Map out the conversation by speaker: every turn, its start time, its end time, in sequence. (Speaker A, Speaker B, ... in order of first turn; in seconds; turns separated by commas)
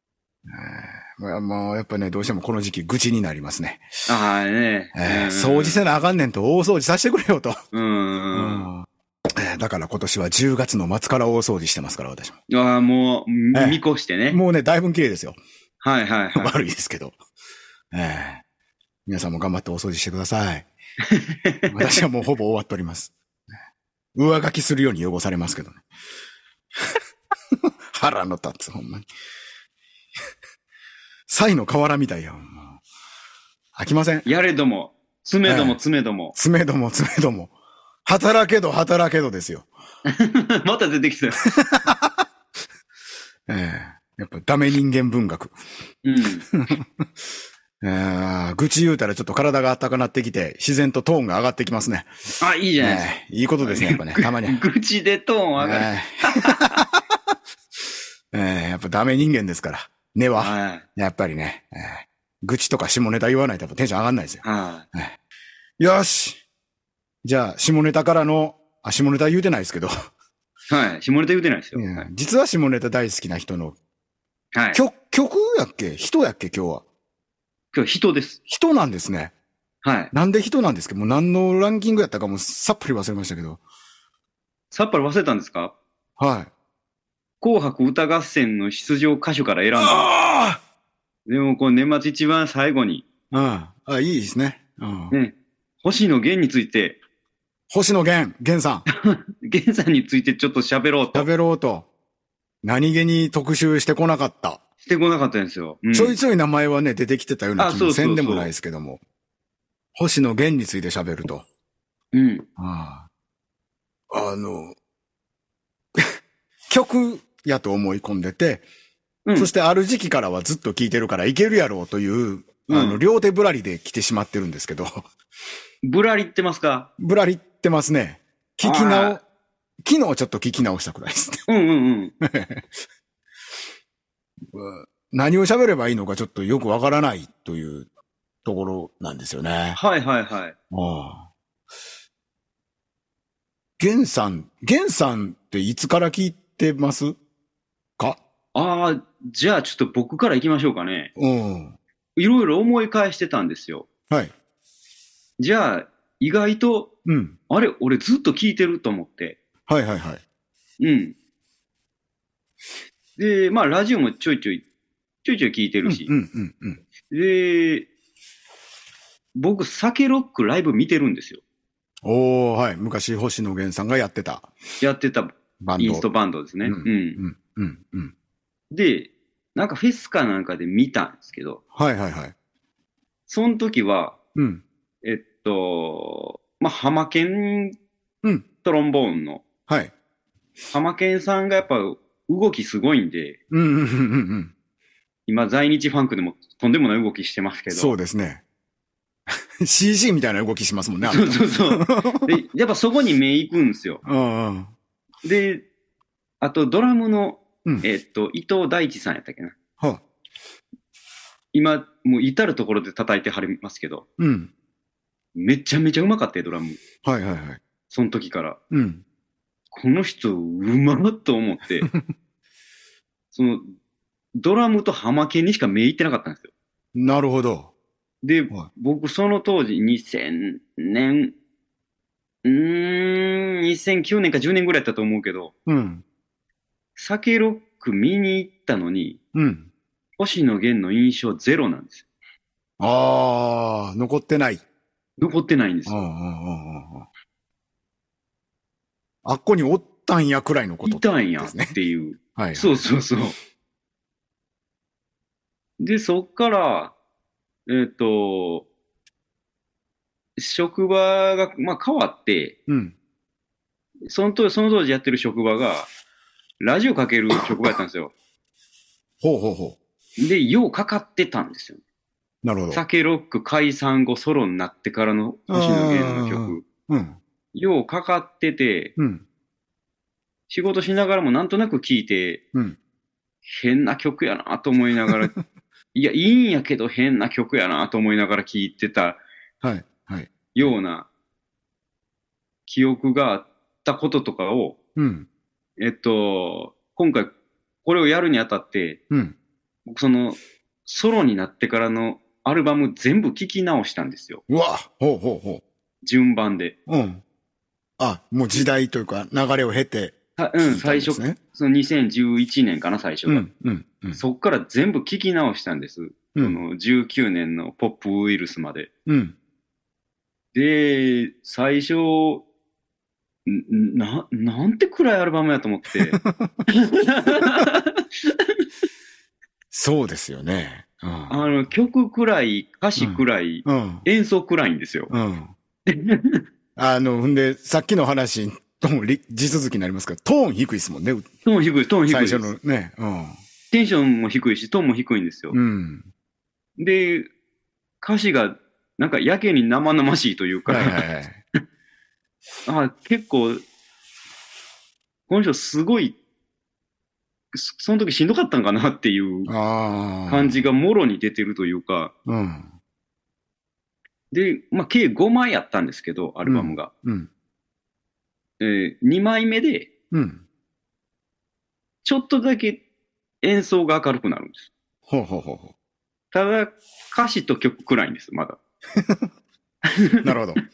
Speaker A: 0.5-3.9, Speaker B: 4.1-5.8, Speaker A: 4.9-7.6, Speaker B: 7.7-8.7, Speaker A: 8.3-12.4, Speaker B: 12.5-14.4, Speaker A: 13.5-15.4, Speaker B: 15.8-16.6, Speaker A: 16.3-17.1, Speaker A: 17.9-18.4, Speaker A: 19.1-20.7, Speaker B: 21.1-22.0, Speaker A: 21.7-23.1, Speaker A: 24.1-25.8, Speaker A: 27.5-29.1, Speaker A: 31.3-32.8, Speaker A: 33.7-34.2, Speaker B: 34.2-36.3, Speaker A: 35.4-35.8, Speaker A: 36.3-37.5, Speaker A: 38.0-39.7, Speaker B: 40.1-41.4, Speaker A: 41.4-42.2, Speaker A: 43.5-45.5, Speaker B: 46.0-46.5, Speaker A: 46.5-47.0, Speaker A: 47.8-54.6, Speaker B: 52.4-56.8, Speaker A: 55.6-57.0, Speaker A: 58.3-64.4, Speaker B: 60.4-60.8, Speaker B: 64.4-64.8, Speaker A: 65.8-66.4, Speaker A: 67.2-69.9, Speaker B: 70.7-72.1, Speaker A: 71.7-73.8, Speaker B: 74.5-74.8, Speaker A: 74.7-76.8, Speaker B: 77.7-78.4, Speaker A: 78.5-79.3, Speaker B: 79.8-80.1, Speaker A: 80.1-83.6, Speaker B: 84.7-85.7, Speaker A: 86.2-86.5, Speaker B: 87.4-90.1, Speaker A: 89.8-90.6, Speaker B: 91.3-93.0, Speaker A: 93.3-95.1, Speaker B: 95.1-97.0, Speaker A: 97.7-98.8, Speaker B: 98.9-101.3, Speaker A: 101.1-101.9, Speaker A: 102.6-104.6, Speaker B: 104.8-106.2, Speaker A: 105.9-109.0, Speaker B: 107.6-108.5, Speaker A: 109.9-111.5, Speaker B: 112.1-112.5, Speaker A: 112.6-113.0, Speaker A: 114.1-114.8, Speaker A: 116.7-118.6, Speaker B: 119.2-119.5, Speaker A: 119.3-125.0, Speaker B: 122.7-123.0, Speaker B: 125.8-126.9, Speaker A: 127.0-129.2, Speaker B: 128.6-129.2, Speaker A: 129.8-131.4, Speaker B: 131.5-132.1, Speaker A: 132.2-132.8, Speaker A: 134.5-137.9, Speaker A: 138.4-139.8, Speaker B: 139.7-140.6, Speaker A: 140.7-141.3, Speaker A: 143.8-147.2, Speaker B: 148.5-151.1, Speaker A: 151.2-151.8, Speaker B: 152.2-153.9, Speaker B: 155.4-156.9, Speaker A: 157.0-157.4, Speaker B: 157.5-159.4, Speaker A: 159.7-160.2, Speaker B: 160.8-161.1, Speaker B: 163.2-164.6, Speaker B: 165.2-166.1, Speaker A: 165.8-166.8, Speaker B: 167.1-167.9, Speaker B: 169.3-171.4, Speaker A: 172.0-174.5, Speaker B: 174.8-177.2, Speaker A: 175.6-176.1, Speaker A: 176.6-178.1, Speaker B: 178.7-181.6, Speaker A: 181.7-182.3, Speaker B: 183.3-184.2, Speaker A: 184.3-184.6, Speaker B: 185.0-187.8, Speaker B: 188.6-189.4, Speaker A: 189.7-189.9, Speaker B: 190.7-193.4, Speaker A: 193.5-194.5, Speaker B: 195.3-197.9, Speaker A: 197.7-198.4, Speaker A: 199.6-202.3, Speaker B: 201.0-204.0, Speaker A: 204.0-204.7, Speaker B: 205.2-205.6, Speaker B: 206.4-209.6, Speaker B: 211.5-214.0, Speaker A: 214.2-214.5, Speaker B: 215.3-216.8, Speaker A: 217.0-217.6, Speaker B: 217.9-218.6, Speaker A: 218.7-219.0, Speaker B: 219.7-221.9, Speaker B: 223.3-223.7, Speaker B: 224.3-226.5, Speaker A: 226.9-227.7, Speaker B: 228.2-231.3, Speaker B: 232.4-235.5, Speaker A: 235.7-236.0, Speaker B: 236.9-239.2, Speaker A: 239.3-239.7, Speaker B: 240.2-242.1, Speaker A: 242.8-244.6, Speaker B: 245.2-246.0, Speaker A: 245.9-247.1, Speaker A: 249.2-251.8, Speaker B: 250.8-253.3, Speaker A: 252.3-252.8, Speaker B: 255.8-256.9, Speaker B: 257.7-258.7, Speaker B: 260.4-262.6, Speaker A: 262.7-262.9, Speaker B: 264.1-265.9, Speaker B: 266.6-268.1, Speaker A: 269.2-269.8, Speaker B: 270.2-271.8, Speaker A: 272.4-272.8, Speaker B: 272.7-276.6, Speaker A: 275.5-277.2, Speaker B: 277.5-278.9, Speaker A: 279.0-279.2, Speaker B: 280.5-282.4, Speaker B: 283.4-285.3, Speaker A: 285.1-285.4, Speaker B: 285.9-289.2, Speaker A: 289.6-290.7, Speaker B: 290.5-291.1, Speaker B: 292.7-294.8, Speaker A: 294.9-295.3, Speaker B: 295.8-297.3, Speaker B: 297.8-299.0, Speaker A: 299.1-299.4, Speaker B: 299.9-304.4, Speaker A: 304.5-305.6, Speaker B: 306.0-306.7, Speaker A: 306.9-307.2, Speaker A: 308.0-311.4, Speaker B: 310.4-313.4, Speaker A: 313.3-314.2, Speaker B: 314.1-318.9, Speaker A: 319.1-319.4, Speaker B: 320.5-322.4, Speaker B: 323.4-328.5, Speaker A: 326.1-326.6, Speaker A: 329.7-331.4, Speaker B: 331.3-335.1, Speaker A: 333.0-334.1, Speaker A: 335.1-335.5, Speaker B: 335.9-336.4, Speaker A: 336.8-341.3, Speaker B: 341.4-342.5, Speaker A: 342.1-343.4, Speaker B: 343.7-345.6, Speaker A: 345.5-346.1, Speaker B: 346.8-347.3, Speaker B: 348.0-351.0, Speaker A: 350.7-351.4, Speaker B: 352.6-353.6, Speaker B: 355.3-356.1, Speaker B: 357.5-359.5, Speaker A: 359.5-360.6, Speaker B: 360.3-362.1, Speaker A: 362.2-362.7, Speaker B: 364.3-366.9, Speaker A: 366.4-367.3, Speaker B: 368.6-369.9, Speaker A: 370.1-370.4, Speaker B: 372.0-372.8, Speaker B: 373.4-374.7, Speaker A: 375.1-375.7, Speaker B: 376.3-378.6, Speaker A: 379.0-379.3, Speaker B: 379.9-380.2, Speaker A: 380.2-380.6